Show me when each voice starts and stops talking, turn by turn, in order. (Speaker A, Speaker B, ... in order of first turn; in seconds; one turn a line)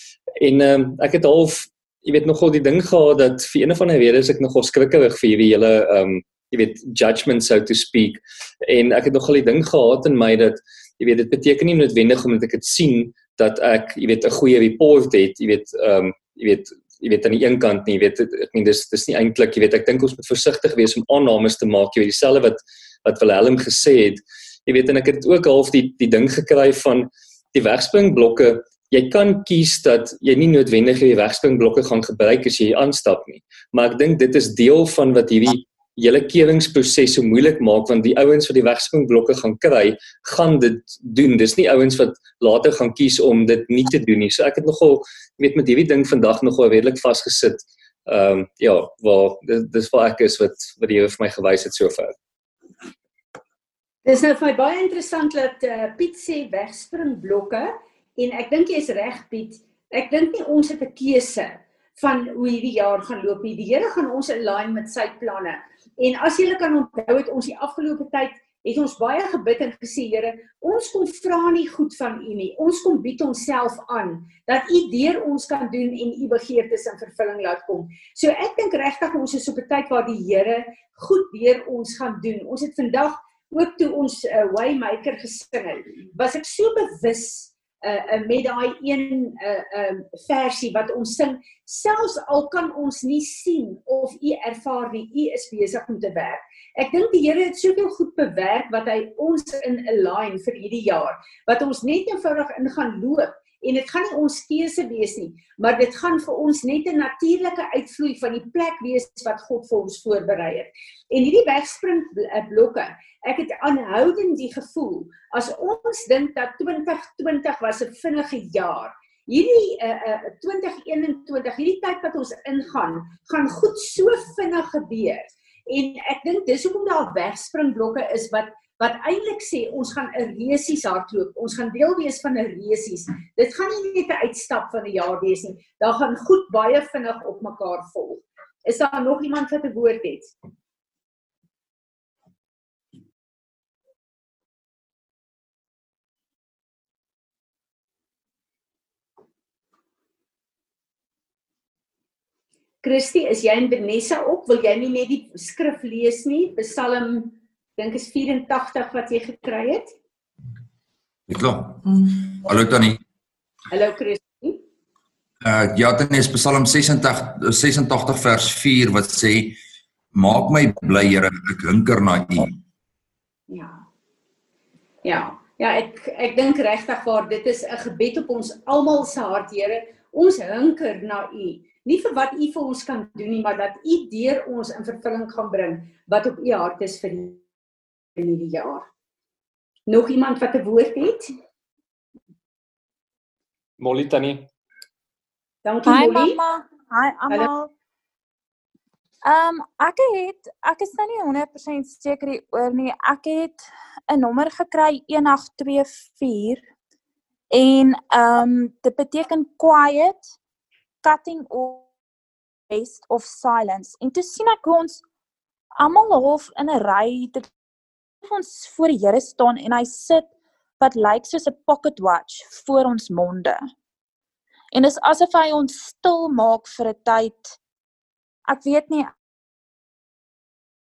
Speaker A: 0.4-52.1
Speaker B: 54.1-140.3
Speaker B: 152.8-159.9
Speaker C: 161.3-163.0
Speaker B: 163.7-164.6
Speaker C: 165.4-169.6
Speaker C: 170.1-172.6
Speaker B: 173.5-173.8
Speaker B: 175.0-187.4
Speaker B: 188.2-188.9
Speaker B: 189.9-191.3
Speaker A: 193.8-194.5
Speaker B: 195.7-196.4
Speaker D: 195.8-197.7
Speaker D: 199.3-206.7
Speaker D: 207.5-210.3
Speaker D: 211.0-211.9
Speaker D: 212.7-215.0
Speaker D: 215.8-217.5
Speaker D: 218.2-223.7
Speaker D: 224.7-227.6
Speaker D: 228.5-229.1